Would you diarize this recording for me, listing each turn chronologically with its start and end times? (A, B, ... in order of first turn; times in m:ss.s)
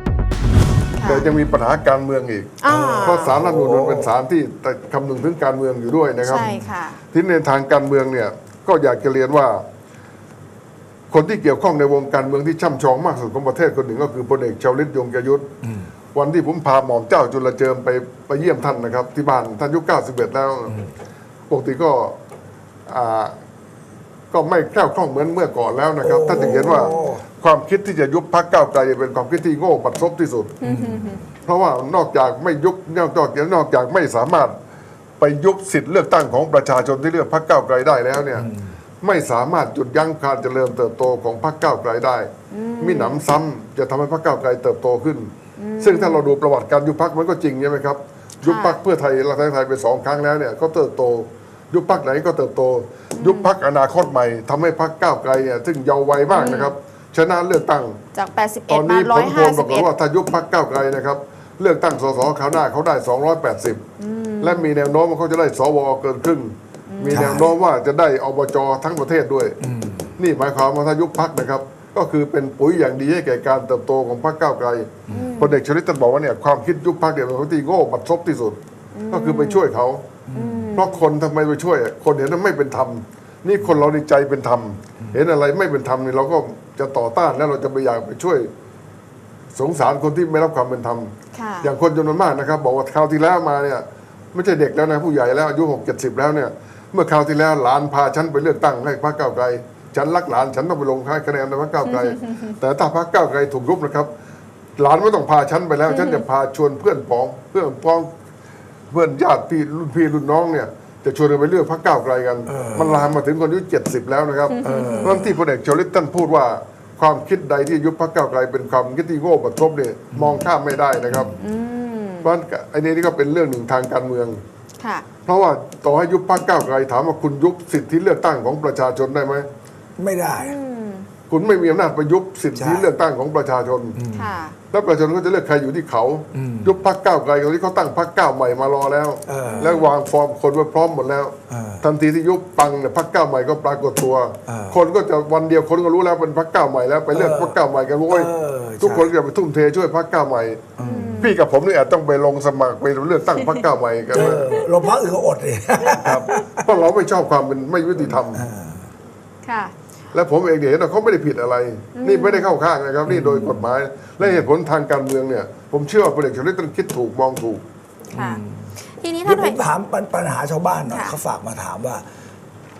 0:01.0-0:01.4 A
0:01.0-0:06.5 B
0:02.6-0:03.4 A
0:02.7-0:04.1 C
0:06.2-0:07.0 A
0:07.1-0:09.6 B
0:11.1-0:15.5 B
0:16.1-0:20.8 B
0:21.5-0:22.1 B
0:22.8-0:23.3 B
0:24.3-0:30.5 B
0:26.0-0:27.2 C
0:26.4-0:27.1 A
0:30.6-0:31.2 A
0:30.6-0:31.3 C
0:31.4-0:34.5 B
0:35.2-0:38.5 B
0:38.4-0:38.6 C
0:39.0-0:42.3 B
0:42.5-0:43.2 A
0:42.8-0:58.0 B
0:45.6-0:46.2 A
0:48.4-0:48.8 A
0:53.2-0:53.5 A
0:56.3-0:56.7 A
0:58.1-0:59.9 A
0:58.7-1:03.8 B
1:04.0-1:04.7 A
1:04.4-1:09.6 B
1:06.9-1:07.5 A
1:07.1-1:07.5 C
1:09.6-1:10.1 C
1:10.2-1:18.6 B
1:15.1-1:15.3 C
1:15.1-1:15.6 A
1:18.9-1:19.6 A
1:19.1-1:20.0 B
1:20.3-1:20.7 C
1:20.3-1:21.0 A
1:20.7-1:28.5 B
1:29.5-1:44.1 B
1:31.3-1:31.7 A
1:41.8-1:42.5 A
1:44.8-1:48.1 B
1:45.9-1:46.2 A
1:48.9-2:01.3 B
1:52.5-1:53.0 C
1:54.5-1:55.2 A
1:54.6-1:55.4 C
2:00.1-2:00.4 C
2:01.1-2:01.4 C
2:01.4-2:02.3 A
2:02.2-2:04.4 B
2:04.8-2:05.0 A
2:05.2-2:09.5 B
2:10.0-2:10.6 C
2:10.4-2:11.1 A
2:11.3-2:14.0 B
2:12.5-2:12.9 C
2:14.0-2:14.4 C
2:14.1-2:14.6 A
2:14.7-2:30.6 B
2:16.3-2:16.7 C
2:19.3-2:19.7 C
2:19.4-2:19.9 A
2:21.5-2:21.8 C
2:24.5-2:24.8 C
2:27.1-2:27.6 C
2:28.1-2:29.1 C
2:30.8-2:31.2 C
2:30.8-2:31.4 A
2:31.2-2:34.6 B
2:34.1-2:36.6 C
2:34.2-2:34.9 A
2:35.9-2:38.4 B
2:38.3-2:38.9 C
2:39.4-2:39.7 A
2:40.1-2:47.6 B
2:42.0-2:42.5 A
2:43.0-2:43.6 C
2:44.2-2:44.4 C
2:48.1-2:48.4 A
2:48.1-2:48.7 C
2:49.0-2:49.6 A
2:49.2-2:52.0 C
2:50.9-2:51.2 A